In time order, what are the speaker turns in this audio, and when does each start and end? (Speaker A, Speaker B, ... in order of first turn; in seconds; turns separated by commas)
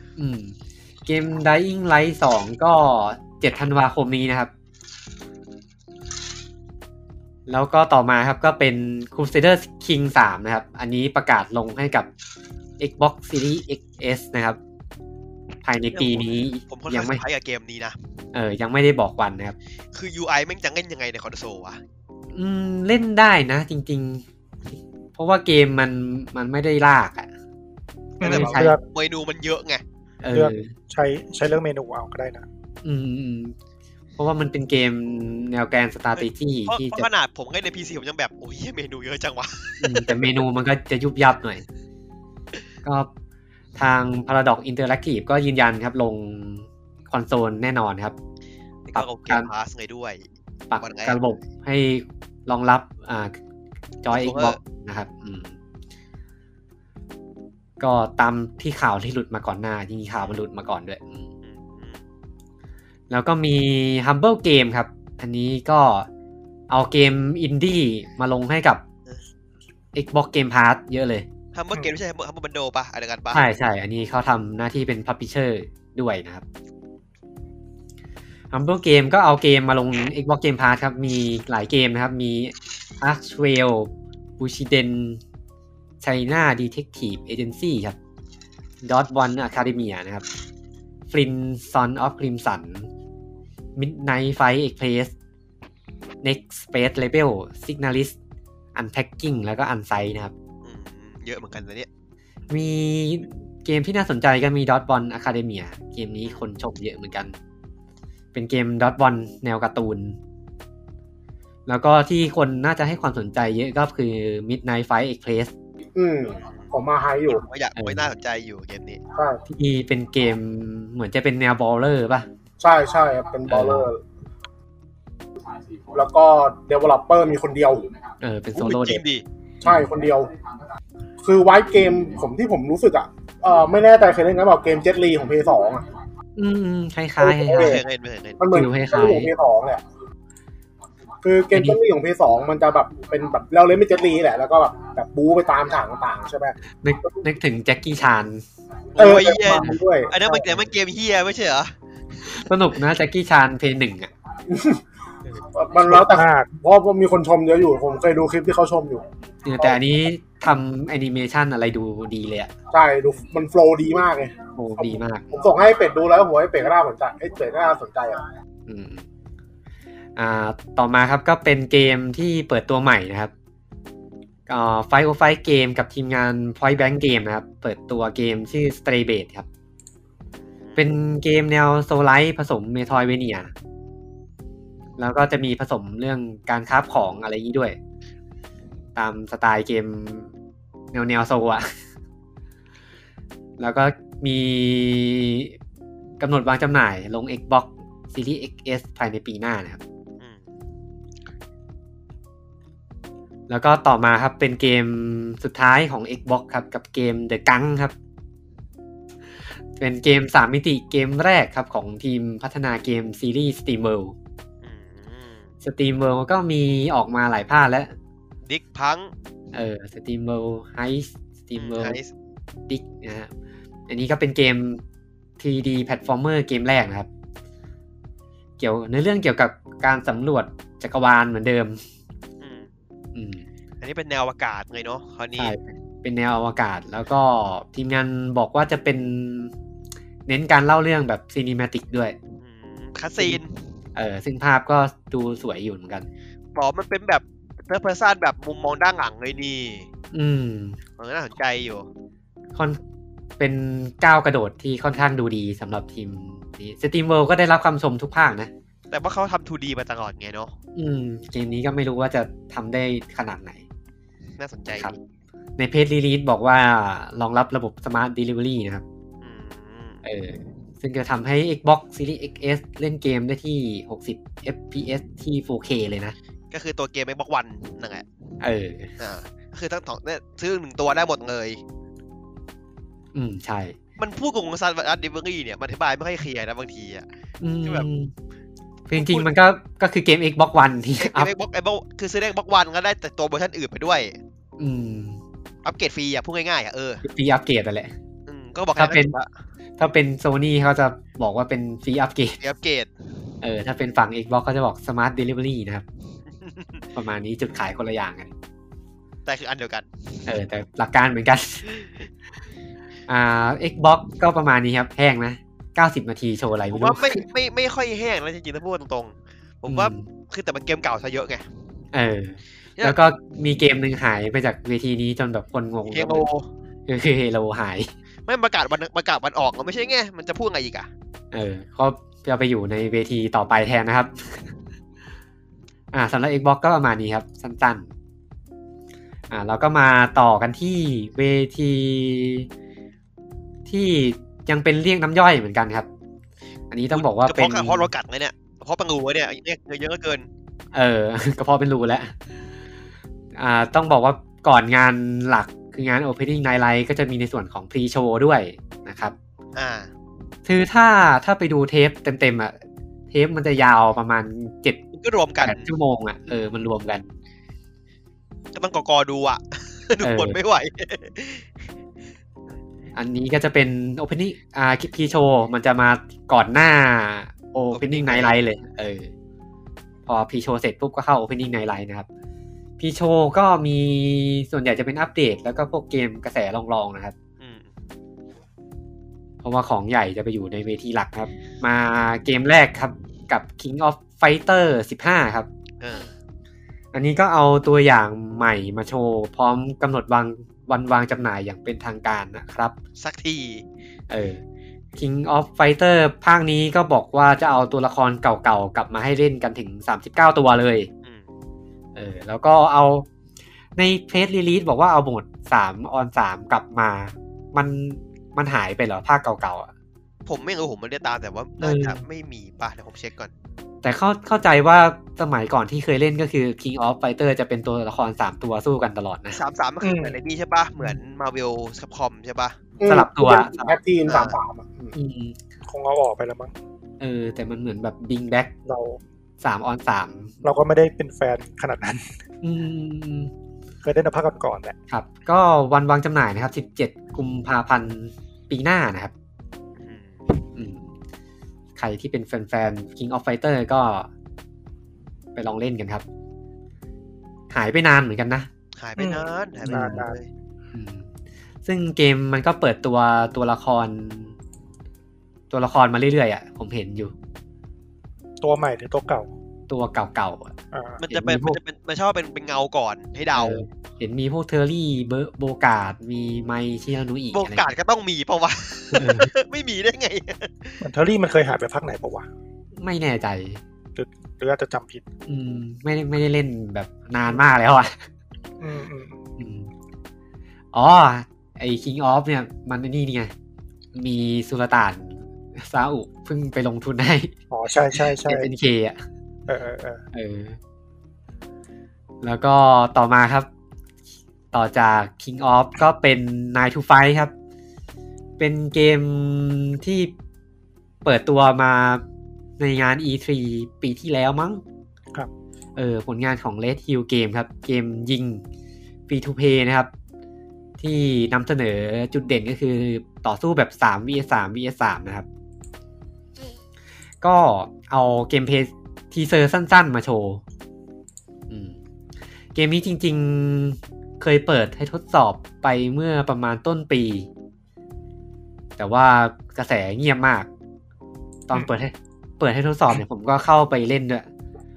Speaker A: 0.2-0.6, Speaker A: 1.1-4.5, Speaker A: 7.5-12.1, Speaker A: 12.8-14.6, Speaker A: 15.6-17.2, Speaker B: 15.9-18.0, Speaker A: 18.3-19.6, Speaker B: 19.9-21.8, Speaker A: 22.3-24.2, Speaker A: 25.1-27.3, Speaker C: 28.2-28.8, Speaker B: 28.2-29.8, Speaker A: 28.2-28.8, Speaker A: 30.2-30.7, Speaker C: 30.3-32.5, Speaker A: 32.8-33.6, Speaker A: 34.2-37.1, Speaker B: 36.2-40.3, Speaker A: 39.8-41.6, Speaker A: 42.8-43.1, Speaker A: 43.8-48.1, Speaker B: 48.9-50.2, Speaker A: 49.0-49.5, Speaker A: 50.7-53.4, Speaker B: 50.8-51.2, Speaker A: 54.0-55.5, Speaker B: 54.1-54.6, Speaker A: 57.8-61.3, Speaker B: 61.5-62.0, Speaker A: 63.1-66.1, Speaker A: 66.7-68.8, Speaker A: 69.9-71.3, Speaker B: 71.5-73.4, Speaker A: 73.3-76.4, Speaker A: 78.5-85.2, Speaker A: 86.0-88.0, Speaker A: 88.8-90.2, Speaker A: 91.1-92.9, Speaker A: 93.8-95.1, Speaker A: 96.2-98.2, Speaker A: 98.8-100.3, Speaker B: 100.6-101.9, Speaker A: 102.5-107.3, Speaker A: 108.3-110.2, Speaker A: 111.7-115.5, Speaker D: 116.0-117.5, Speaker B: 117.3-119.0, Speaker A: 117.8-118.1, Speaker D: 119.2-119.4, Speaker A: 119.5-122.3, Speaker D: 122.6-124.0, Speaker A: 123.5-123.9, Speaker D: 125.9-127.9, Speaker A: 128.2-129.0, Speaker B: 128.6-129.2, Speaker D: 129.6-130.3, Speaker D: 131.2-135.9, Speaker A: 136.4-137.8, Speaker D: 137.2-137.8, Speaker B: 137.6-138.4, Speaker D: 138.4-139.8, Speaker A: 138.5-139.3, Speaker D: 141.2-146.6, Speaker A: 141.5-141.8, Speaker A: 146.8-148.4, Speaker B: 148.9-151.7, Speaker D: 149.0-150.6, Speaker A: 149.5-149.8, Speaker A: 152.3-154.1, Speaker D: 154.5-154.8, Speaker D: 155.5-159.1, Speaker C: 155.9-156.5, Speaker A: 159.4-162.5, Speaker D: 162.7-168.2, Speaker A: 164.6-165.3, Speaker A: 168.7-169.1, Speaker A: 170.2-173.3, Speaker A: 174.5-179.5, Speaker A: 180.8-183.5, Speaker A: 185.0-187.8, Speaker A: 189.0-190.3, Speaker A: 190.9-191.7, Speaker A: 193.6-195.6, Speaker A: 196.2-199.8, Speaker A: 203.5-207.9, Speaker A: 209.8-214.1, Speaker B: 214.6-215.5, Speaker A: 215.6-217.9, Speaker B: 218.5-219.1, Speaker A: 219.5-222.0, Speaker B: 221.6-222.1, Speaker A: 222.7-223.3, Speaker A: 223.9-224.8, Speaker A: 225.4-227.1, Speaker A: 228.6-231.8, Speaker B: 232.4-232.7, Speaker A: 233.2-233.4, Speaker B: 233.8-235.5, Speaker A: 235.4-239.5, Speaker A: 240.3-242.2, Speaker B: 242.4-243.6, Speaker A: 243.9-246.1, Speaker B: 246.6-249.9, Speaker A: 250.1-250.8, Speaker B: 251.0-251.9, Speaker A: 252.6-252.8, Speaker A: 253.4-258.5, Speaker B: 258.9-260.5, Speaker A: 260.8-263.6, Speaker B: 264.4-265.0, Speaker A: 265.6-268.8, Speaker B: 269.2-270.0, Speaker A: 270.0-276.1, Speaker B: 276.5-278.1, Speaker A: 278.4-278.9, Speaker B: 279.0-281.6, Speaker A: 283.1-283.8, Speaker B: 284.0-287.1, Speaker A: 287.4-288.1, Speaker A: 288.9-291.3, Speaker B: 288.9-289.3, Speaker B: 291.0-294.2, Speaker A: 294.6-295.2, Speaker B: 295.6-297.0, Speaker A: 297.0-297.9, Speaker B: 298.3-299.3, Speaker A: 298.8-299.1, Speaker A: 299.8-302.4, Speaker B: 302.4-302.9, Speaker A: 303.4-305.8, Speaker B: 306.4-306.8, Speaker A: 307.0-308.3, Speaker B: 309.3-309.9, Speaker A: 310.3-311.7, Speaker B: 311.7-312.1, Speaker A: 313.1-317.2, Speaker B: 316.7-321.4, Speaker A: 319.7-320.1, Speaker A: 321.9-326.3, Speaker B: 325.9-326.5, Speaker A: 326.9-327.9, Speaker B: 328.3-330.9, Speaker A: 331.3-334.4, Speaker A: 335.9-337.9, Speaker A: 339.3-342.5, Speaker A: 343.7-345.9, Speaker A: 346.7-347.9, Speaker B: 346.9-350.3, Speaker A: 350.7-352.1, Speaker A: 353.4-359.1, Speaker B: 359.6-359.9, Speaker A: 360.5-362.5, Speaker A: 363.1-364.8, Speaker B: 364.9-365.7, Speaker A: 365.4-367.1, Speaker B: 368.6-371.5, Speaker A: 370.0-370.4, Speaker A: 372.9-379.1, Speaker B: 377.7-378.4, Speaker A: 380.1-382.1, Speaker A: 382.8-387.1, Speaker B: 387.4-387.7, Speaker A: 389.4-395.5, Speaker B: 395.8-396.1, Speaker A: 396.9-402.8, Speaker B: 403.0-403.6, Speaker A: 404.1-404.4, Speaker A: 405.0-410.9, Speaker A: 411.9-413.1, Speaker A: 413.8-419.7, Speaker B: 420.3-423.3, Speaker A: 421.6-422.0, Speaker A: 423.8-429.4, Speaker B: 429.3-432.6, Speaker C: 429.8-430.2, Speaker D: 432.8-434.9, Speaker A: 432.9-433.8, Speaker B: 434.1-434.4, Speaker A: 434.9-435.4, Speaker C: 435.7-436.5, Speaker A: 437.0-438.5, Speaker C: 438.7-439.0, Speaker A: 439.4-440.4, Speaker C: 440.4-442.1, Speaker A: 442.4-443.3, Speaker C: 443.8-444.8, Speaker A: 444.9-449.1, Speaker B: 449.8-450.2, Speaker A: 450.6-450.9, Speaker A: 451.8-454.1, Speaker A: 455.4-456.0, Speaker A: 457.5-458.5, Speaker B: 458.8-460.3, Speaker C: 459.0-460.1, Speaker A: 459.6-460.1, Speaker A: 460.7-461.1, Speaker A: 461.6-464.4, Speaker A: 465.5-467.1, Speaker C: 468.4-469.3, Speaker A: 469.7-470.5, Speaker C: 470.7-471.0, Speaker B: 471.0-473.6, Speaker A: 471.1-471.6, Speaker A: 473.4-477.7, Speaker B: 477.3-480.8, Speaker A: 478.9-479.3, Speaker C: 480.8-482.3, Speaker A: 482.8-483.6, Speaker C: 484.0-485.0, Speaker A: 485.3-488.0, Speaker C: 488.6-489.2, Speaker A: 489.4-489.7, Speaker A: 490.7-493.3, Speaker A: 493.9-497.3, Speaker C: 497.5-498.5, Speaker A: 498.2-499.0, Speaker C: 499.5-500.0, Speaker A: 500.1-500.6, Speaker A: 502.2-503.5, Speaker A: 504.5-507.3, Speaker A: 508.4-510.1, Speaker A: 511.0-512.0, Speaker A: 512.6-514.6, Speaker A: 515.8-518.4, Speaker A: 519.1-519.9, Speaker A: 520.8-525.3, Speaker A: 527.2-530.4, Speaker A: 531.5-531.8, Speaker A: 532.5-537.3, Speaker A: 538.8-540.5, Speaker A: 541.5-544.3